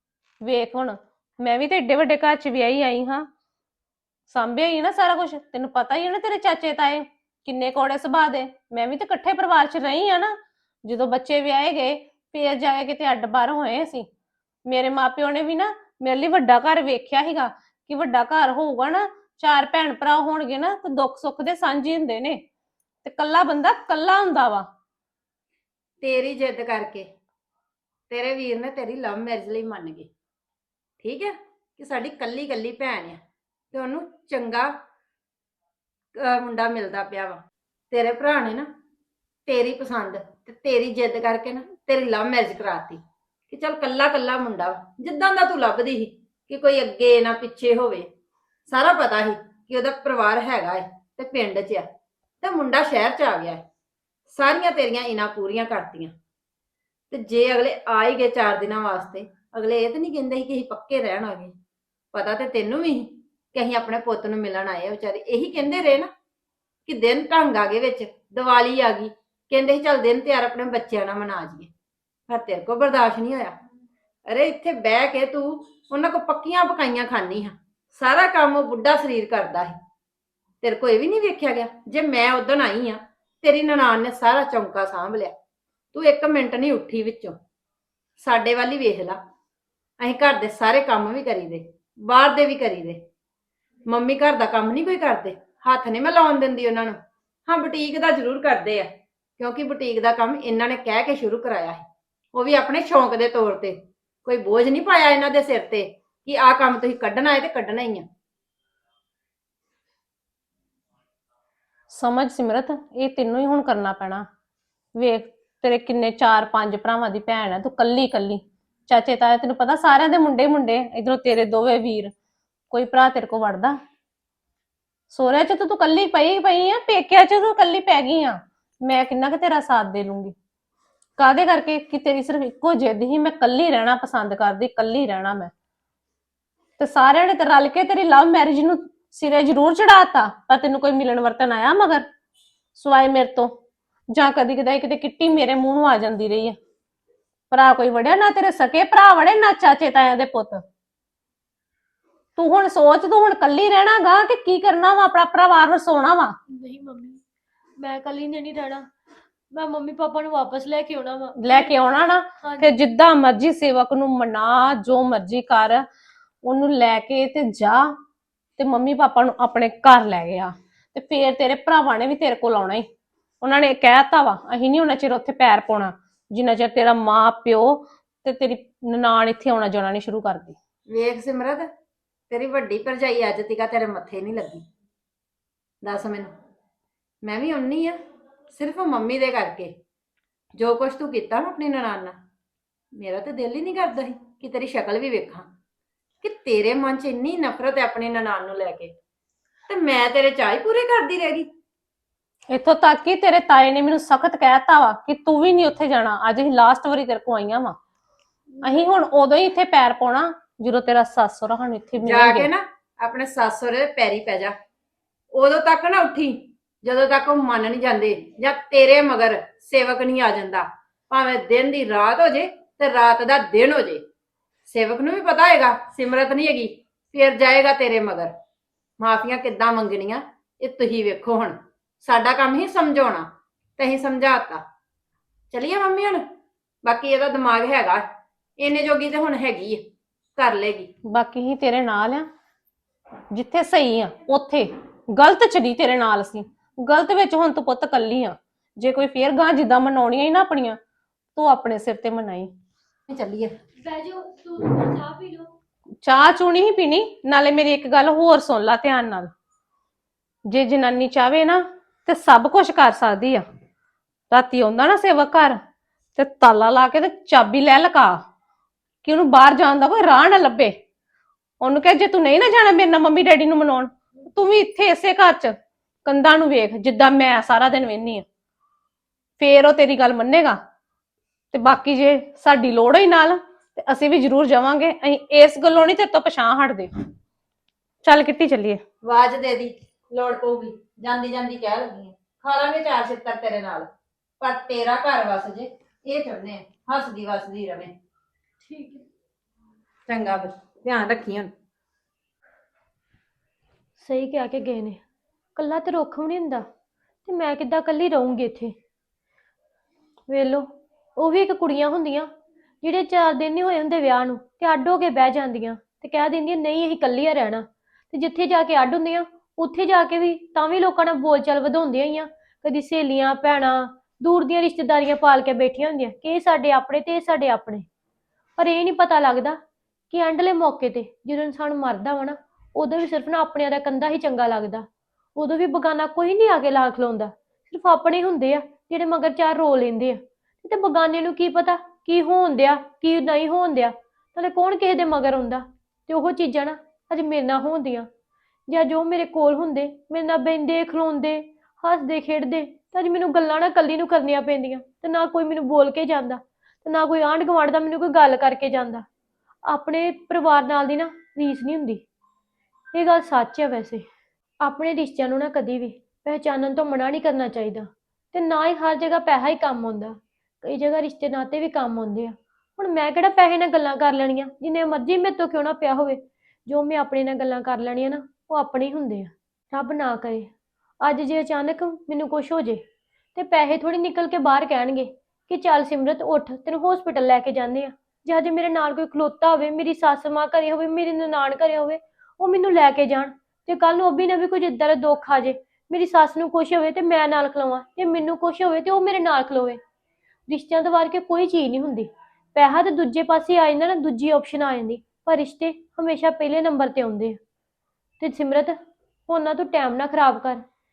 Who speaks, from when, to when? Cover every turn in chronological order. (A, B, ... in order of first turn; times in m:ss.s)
0:00.4-0:03.3 A
0:04.3-0:14.1 A
0:14.7-0:22.4 A
0:23.0-0:24.7 A
0:26.0-0:27.1 B
0:28.1-0:30.1 B
0:31.0-0:33.2 B
0:33.7-0:34.7 B
0:36.2-0:37.4 B
0:37.9-0:38.7 B
0:39.5-0:48.1 B
0:48.7-0:51.9 B
0:52.4-0:53.6 B
0:54.3-0:56.1 B
0:57.1-1:01.5 B
1:02.1-1:06.1 B
1:06.9-1:11.7 B
1:12.3-1:13.6 B
1:14.3-1:19.8 B
1:20.6-1:25.3 B
1:25.9-1:27.4 B
1:28.2-1:29.2 B
1:30.0-1:33.0 B
1:33.9-1:48.1 B
1:51.9-1:54.3 A
1:55.0-2:02.1 A
2:02.7-2:03.8 A
2:05.1-2:10.4 A
2:11.2-2:15.5 A
2:16.8-2:22.0 A
2:22.8-2:23.6 A
2:24.1-2:26.6 A
2:27.5-2:30.6 A
2:32.4-2:36.4 A
2:36.5-2:37.2 C
2:37.8-2:38.9 C
2:39.5-2:41.8 C
2:41.4-2:45.8 A
2:42.4-2:42.7 C
2:46.4-2:47.9 A
2:48.6-2:52.9 A
2:53.4-3:00.6 A
3:00.9-3:01.7 B
3:02.3-3:04.6 B
3:05.8-3:06.3 B
3:07.2-3:08.0 B
3:08.5-3:09.7 B
3:10.6-3:12.2 B
3:13.0-3:15.5 B
3:16.2-3:18.9 B
3:19.7-3:21.5 B
3:22.5-3:27.8 A
3:28.6-3:32.5 A
3:32.0-3:34.5 B
3:35.3-3:44.0 B
3:44.7-3:48.3 B
3:49.0-3:54.6 B
3:55.5-3:56.2 B
3:56.8-3:58.0 B
3:58.6-3:59.8 B
4:00.4-4:00.9 B
4:01.1-4:02.3 A
4:03.3-4:10.8 A
4:11.4-4:12.5 A
4:13.1-4:13.5 B
4:13.8-4:15.5 C
4:16.0-4:19.3 A
4:20.5-4:23.4 A
4:24.3-4:25.6 A
4:26.2-4:28.2 A
4:29.0-4:30.8 A
4:31.6-4:38.3 A
4:39.4-4:40.6 A
4:41.5-4:46.9 A
4:48.0-4:48.8 A
4:49.0-4:53.9 B
4:54.4-4:57.9 B
4:58.6-4:59.0 C
5:00.1-5:01.5 B
5:04.0-5:05.0 C
5:05.6-5:06.7 C
5:07.2-5:08.8 C
5:10.3-5:12.3 C
5:12.8-5:27.9 C
5:28.6-5:29.6 C
5:30.1-5:48.1 C
5:48.7-5:59.1 C
5:59.7-6:02.0 C
6:02.9-6:04.1 C
6:04.6-6:20.5 C
6:21.0-6:22.8 C
6:23.4-6:39.8 C
6:40.5-6:47.4 C
6:48.2-6:50.6 C